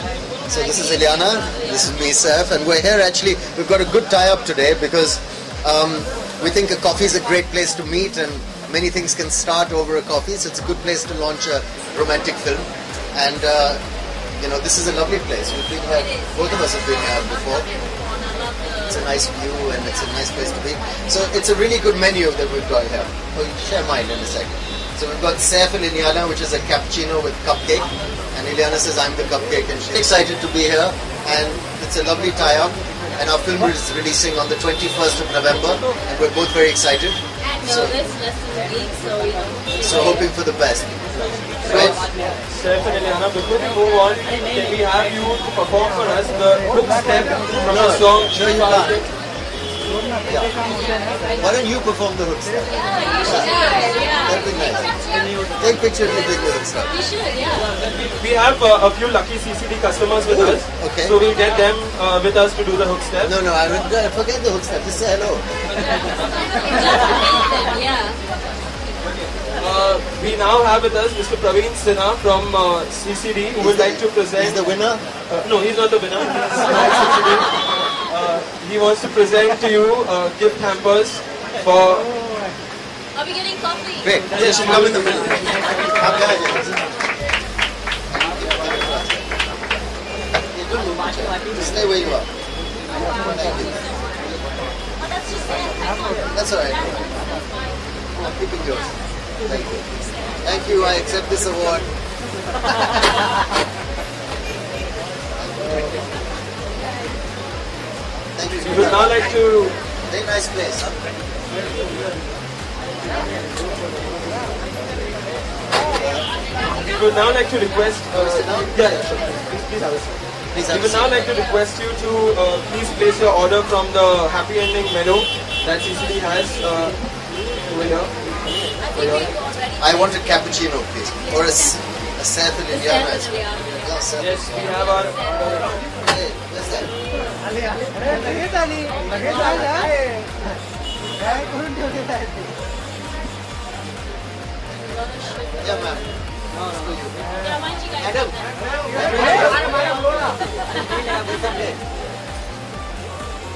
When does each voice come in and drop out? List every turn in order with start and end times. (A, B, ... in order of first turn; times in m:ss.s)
0:00.5-0:13.8 A
0:14.4-0:17.7 A
0:18.4-0:18.7 B
0:18.8-0:38.0 A
0:37.8-0:39.8 B
0:39.8-0:41.0 A
0:41.6-0:42.0 A
0:41.6-0:49.1 C
0:47.6-0:49.0 A
0:50.2-0:50.6 A
0:51.4-0:55.0 A
0:53.2-0:54.3 B
0:55.6-0:56.9 A
0:56.9-0:57.7 B
0:58.0-1:03.3 C
1:00.3-1:01.2 A
1:03.2-1:05.4 A
1:06.2-1:08.2 B
1:09.5-1:14.7 C
1:13.6-1:15.0 A
1:15.3-1:22.1 C
1:23.2-1:24.0 B
1:24.0-1:26.7 A
1:24.3-1:25.6 C
1:28.1-1:29.3 A
1:30.5-1:32.3 A
1:33.1-1:33.8 A
1:35.2-1:35.6 B
1:36.3-1:37.1 A
1:38.2-1:41.9 A
1:45.4-1:45.9 A
1:48.4-1:49.1 A
1:48.6-1:49.8 C
1:50.1-1:51.0 A
1:56.7-2:07.0 C
1:58.1-1:58.7 A
2:00.5-2:01.1 A
2:07.7-2:08.1 C
2:08.9-2:09.3 C
2:09.8-2:14.7 A
2:14.2-2:15.3 C
2:16.0-2:16.9 A
2:18.9-2:19.8 B
2:25.6-2:27.3 A
2:27.9-2:28.3 A
2:28.9-2:29.6 A